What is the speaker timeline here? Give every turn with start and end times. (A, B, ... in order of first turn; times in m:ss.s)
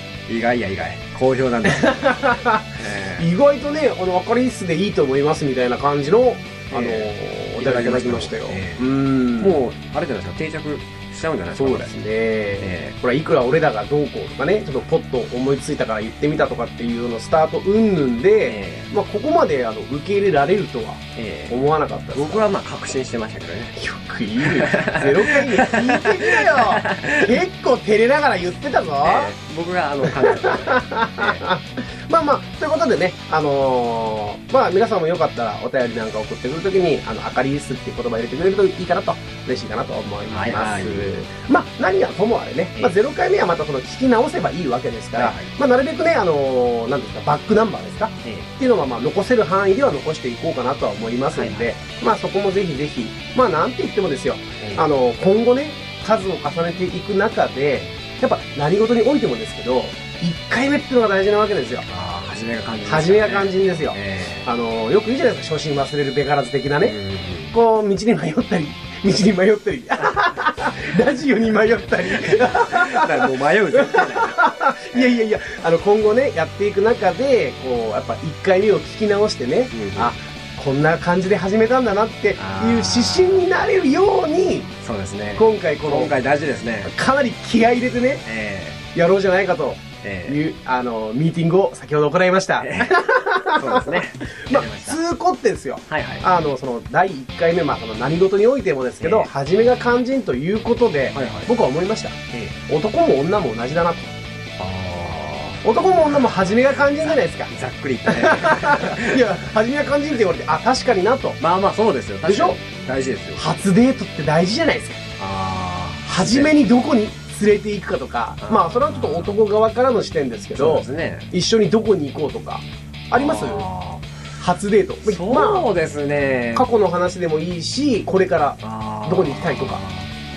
0:00.3-0:02.2 A
0:01.6-0:09.6 B
0:02.8-0:03.3 A
0:06.7-0:08.9 A
0:09.4-0:12.0 A
0:11.5-0:22.5 B
0:12.6-0:13.0 A
0:18.4-0:18.9 A
0:21.2-0:21.6 A
0:22.1-0:23.8 A
0:23.8-0:29.3 B
0:24.4-0:27.4 A
0:29.0-0:31.4 A
0:30.1-1:01.9 B
0:40.3-0:41.1 A
0:45.2-0:45.5 A
0:48.2-0:48.5 A
0:51.3-0:51.7 A
0:54.6-0:54.9 A
1:01.9-1:04.5 A
1:02.9-1:07.0 B
1:06.8-1:07.5 A
1:07.5-1:24.7 B
1:11.9-1:15.2 A
1:19.7-1:20.2 A
1:22.4-1:23.5 A
1:24.8-1:26.9 A
1:25.4-1:26.1 B
1:26.8-1:28.2 B
1:28.3-1:28.8 A
1:29.0-1:44.2 B
1:30.0-1:30.4 A
1:32.6-1:35.0 A
1:35.9-1:36.3 A
1:39.0-1:39.3 A
1:41.1-1:41.5 A
1:42.3-1:42.6 A
1:44.6-1:46.3 A
1:45.6-1:47.5 B
1:47.5-1:49.2 A
1:48.0-1:51.4 B
1:51.4-1:53.6 A
1:52.3-1:52.6 B
1:53.4-1:55.0 B
1:55.2-1:56.6 A
1:56.1-2:03.7 B
1:58.4-1:59.3 A
2:00.6-2:01.3 A
2:03.1-2:04.0 A
2:04.4-2:05.7 B
2:05.0-2:06.7 A
2:06.6-2:09.8 B
2:08.6-2:10.1 A